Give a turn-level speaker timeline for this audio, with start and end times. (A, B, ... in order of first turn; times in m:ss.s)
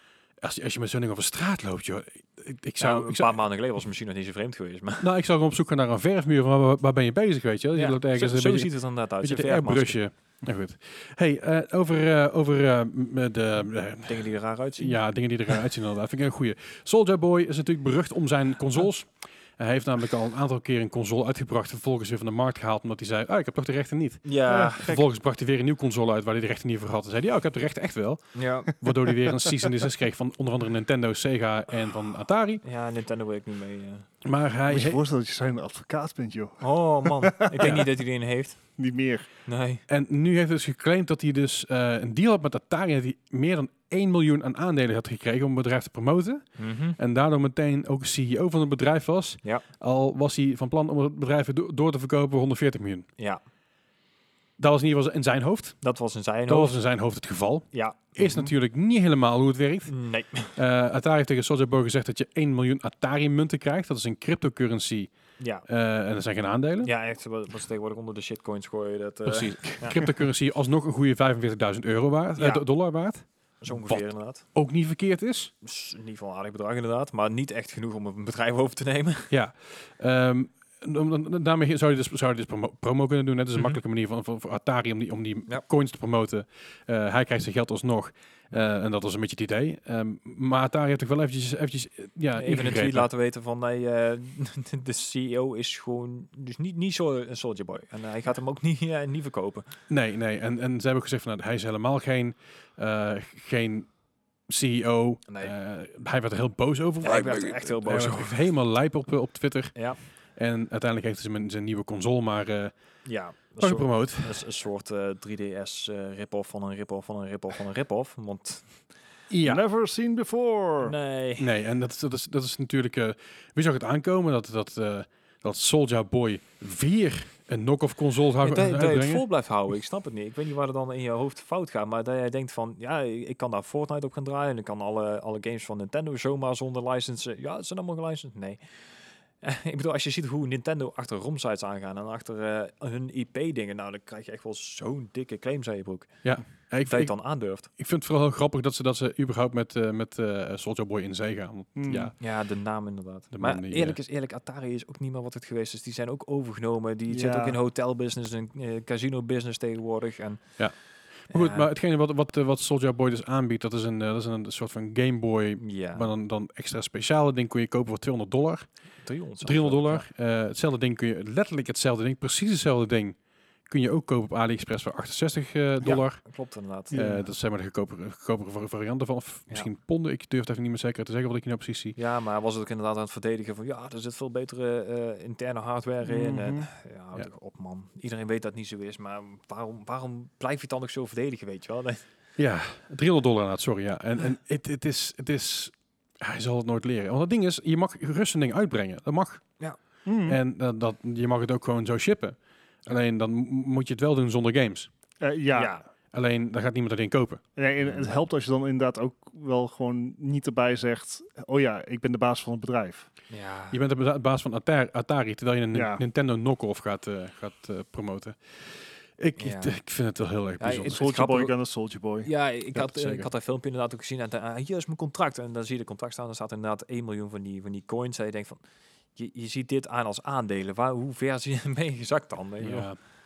0:00.4-0:03.4 A
0:02.8-0:05.1 B
0:05.0-0:32.6 A
0:07.7-0:10.0 B
0:14.1-0:15.0 B
0:24.2-0:24.9 B
0:24.5-0:25.0 C
0:28.3-0:28.8 B
0:32.6-0:34.1 B
0:34.2-0:35.0 A
0:34.7-0:37.9 C
0:36.6-0:38.8 B
0:38.8-0:39.3 C
0:39.4-0:39.8 B
0:39.9-0:53.1 A
0:46.6-0:47.0 B
0:54.6-0:55.8 A
0:55.8-0:56.8 B
0:56.5-0:59.9 A
0:57.7-0:58.5 B
0:59.9-1:00.6 B
1:00.5-1:05.1 A
1:05.4-1:05.6 B
1:05.6-1:06.9 A
1:06.8-1:10.1 B
1:09.2-1:15.5 A
1:12.4-1:12.6 B
1:13.6-1:14.4 B
1:15.6-1:19.3 B
1:19.3-1:33.1 A
1:32.4-1:39.7 B
1:39.9-1:43.9 A
1:44.5-1:52.7 A
1:45.3-1:45.5 B
1:47.0-1:48.4 B
1:53.0-1:58.8 B
1:53.6-1:54.4 A
1:59.3-1:59.6 A
1:59.4-2:00.9 C
2:00.8-2:01.5 B
2:01.4-2:09.2 A
2:08.4-2:18.8 B
2:19.4-2:27.7 B
2:26.2-2:32.2 A
2:31.7-2:32.1 C
2:32.2-2:40.8 B
2:33.3-2:34.0 A
2:37.1-2:37.6 C
2:40.6-2:48.7 A
2:41.3-2:41.7 B
2:45.6-2:46.1 B
2:49.0-2:50.0 B
2:49.4-2:56.2 A
2:55.8-2:57.0 B
2:56.9-2:57.2 C
2:56.9-3:02.0 A
3:02.0-3:12.0 B
3:06.0-3:06.7 C
3:12.4-3:19.4 A
3:20.0-3:20.4 C
3:20.2-3:24.9 A
3:25.2-3:25.8 C
3:25.5-3:25.8 B
3:26.1-3:27.4 A
3:27.6-3:33.1 C
3:33.3-3:33.8 B
3:33.7-3:41.0 A
3:35.7-3:36.0 C
3:39.4-3:39.8 B
3:40.6-3:41.5 B
3:40.9-3:42.3 C
3:42.2-3:48.6 B
3:42.7-3:43.3 A
3:49.1-3:52.9 B
3:52.6-3:53.0 A